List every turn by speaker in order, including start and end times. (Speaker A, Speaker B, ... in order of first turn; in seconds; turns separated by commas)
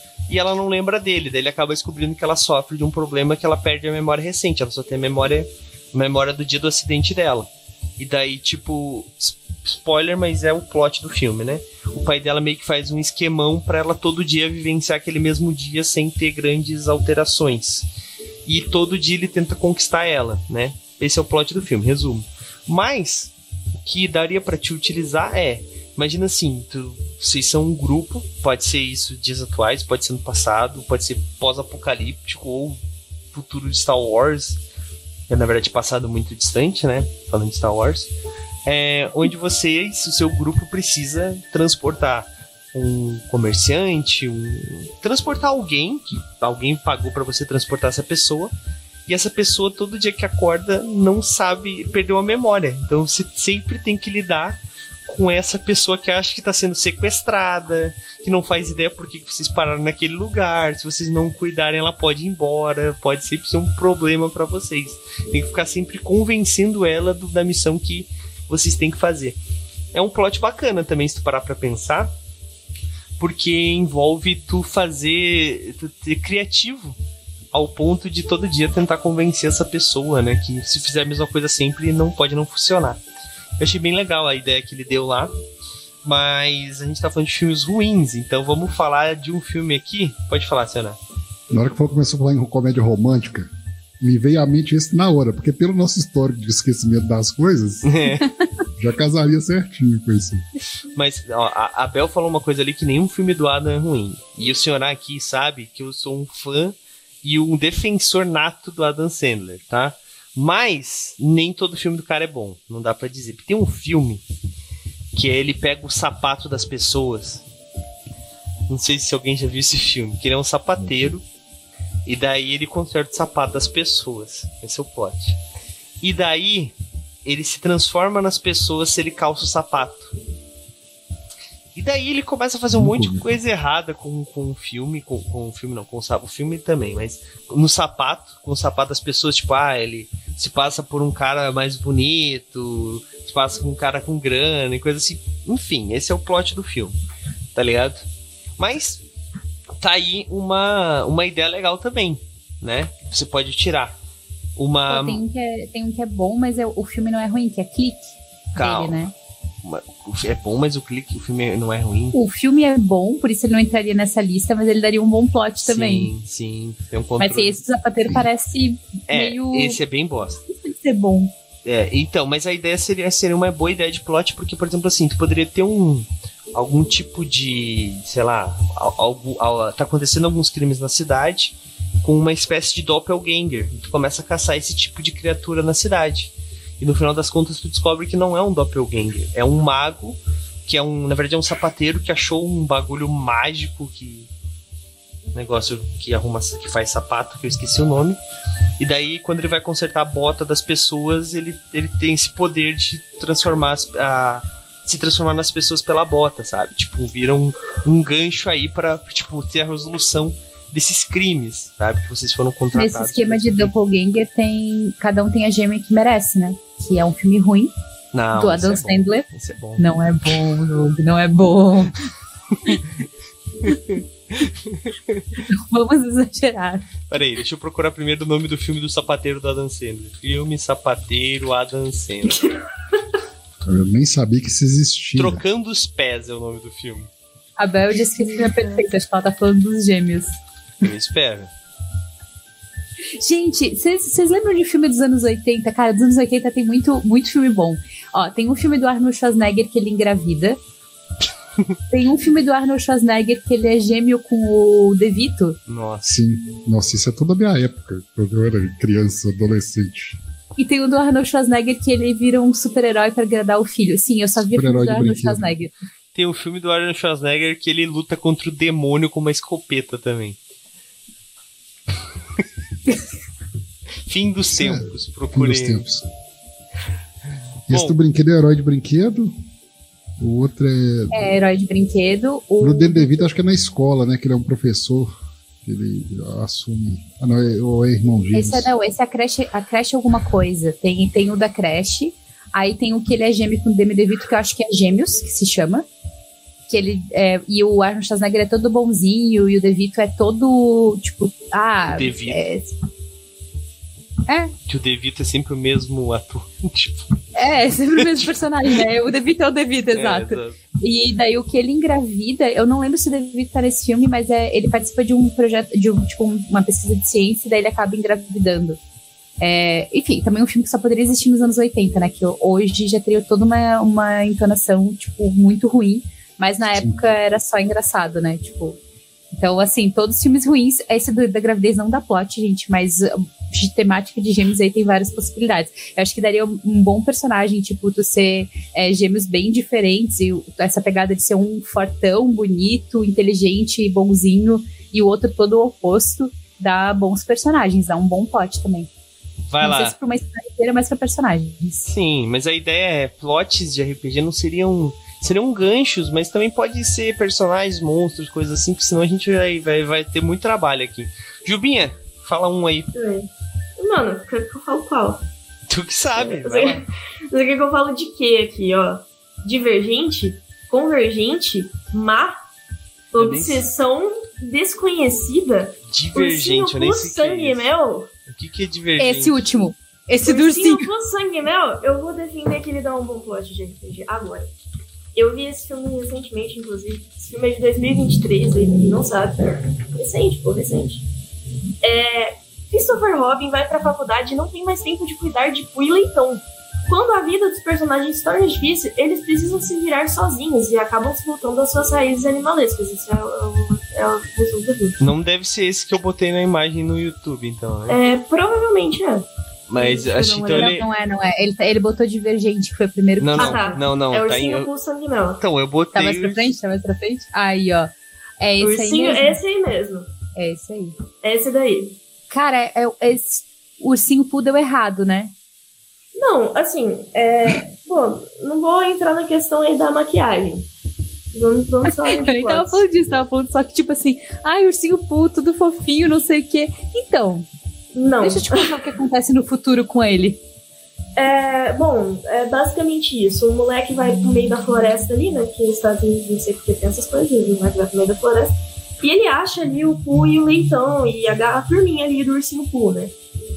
Speaker A: 0.3-17.9, Speaker A: 18.4-32.8, Speaker A: 33.3-34.6, Speaker A: 35.3-38.1, Speaker A: 38.6-48.5, Speaker A: 49.1-69.4, Speaker A: 69.9-72.1, Speaker A: 73.2-77.0, Speaker A: 77.5-83.0, Speaker A: 83.6-85.3, Speaker A: 86.0-91.0, Speaker B: 91.5-93.5, Speaker B: 94.0-98.0, Speaker A: 97.8-98.3, Speaker B: 98.8-100.4, Speaker A: 100.9-114.2, Speaker A: 115.1-117.4, Speaker A: 118.7-121.2, Speaker A: 122.0-125.4, Speaker A: 126.0-130.1, Speaker A: 131.7-146.9, Speaker B: 132.7-133.2, Speaker A: 147.5-148.0, Speaker A: 148.6-149.0, Speaker A: 149.8-153.9, Speaker A: 154.6-155.2, Speaker C: 154.9-159.1, Speaker A: 158.6-159.0, Speaker A: 159.6-162.2, Speaker C: 162.1-166.1, Speaker A: 165.6-167.6, Speaker C: 167.2-169.8, Speaker A: 169.1-170.4, Speaker C: 170.5-171.3, Speaker A: 171.6-194.3, Speaker A: 195.3-198.2, Speaker A: 198.8-213.7, Speaker C: 212.7-217.7, Speaker A: 218.1-219.9, Speaker C: 218.3-219.2, Speaker C: 219.8-222.0, Speaker A: 223.6-225.4, Speaker C: 225.5-226.8, Speaker A: 227.1-232.5, Speaker B: 233.7-235.4, Speaker A: 235.1-237.1, Speaker C: 237.6-240.3, Speaker D: 238.2-238.9, Speaker A: 240.8-241.5, Speaker C: 243.2-250.6, Speaker C: 251.9-255.6, Speaker A: 255.7-256.1, Speaker B: 256.0-260.2, Speaker C: 260.6-265.7, Speaker B: 264.4-265.6, Speaker A: 266.1-270.4, Speaker A: 274.1-275.9, Speaker B: 274.6-276.0, Speaker B: 277.7-279.3, Speaker A: 277.7-277.9, Speaker B: 280.2-281.2, Speaker C: 281.1-283.2, Speaker B: 282.6-285.1, Speaker B: 285.6-288.7, Speaker C: 288.3-295.8, Speaker C: 296.7-302.7, Speaker A: 301.9-302.4, Speaker A: 304.7-307.1, Speaker C: 307.3-318.8, Speaker A: 309.9-310.6, Speaker C: 319.4-328.8, Speaker B: 326.7-327.0, Speaker C: 329.3-348.9, Speaker A: 349.5-349.9, Speaker C: 349.6-351.9, Speaker A: 351.9-362.9, Speaker D: 362.9-365.2, Speaker A: 365.7-366.8, Speaker D: 366.2-372.4, Speaker D: 373.1-378.1, Speaker A: 373.1-373.6, Speaker A: 375.9-377.7, Speaker A: 378.3-379.5, Speaker C: 379.0-380.9, Speaker D: 380.2-384.5, Speaker D: 385.1-391.0, Speaker D: 391.8-405.1, Speaker A: 405.0-408.0, Speaker D: 407.9-410.8, Speaker A: 409.7-410.9, Speaker C: 410.5-413.7, Speaker A: 413.2-414.7, Speaker D: 413.3-415.4, Speaker A: 415.4-416.5, Speaker C: 415.9-419.4, Speaker D: 418.6-420.1, Speaker C: 420.4-420.9, Speaker D: 421.2-421.9, Speaker C: 422.3-425.3, Speaker D: 426.1-430.7, Speaker D: 431.3-432.8, Speaker C: 431.9-437.5, Speaker D: 437.9-438.7, Speaker C: 438.2-440.4, Speaker D: 441.1-453.1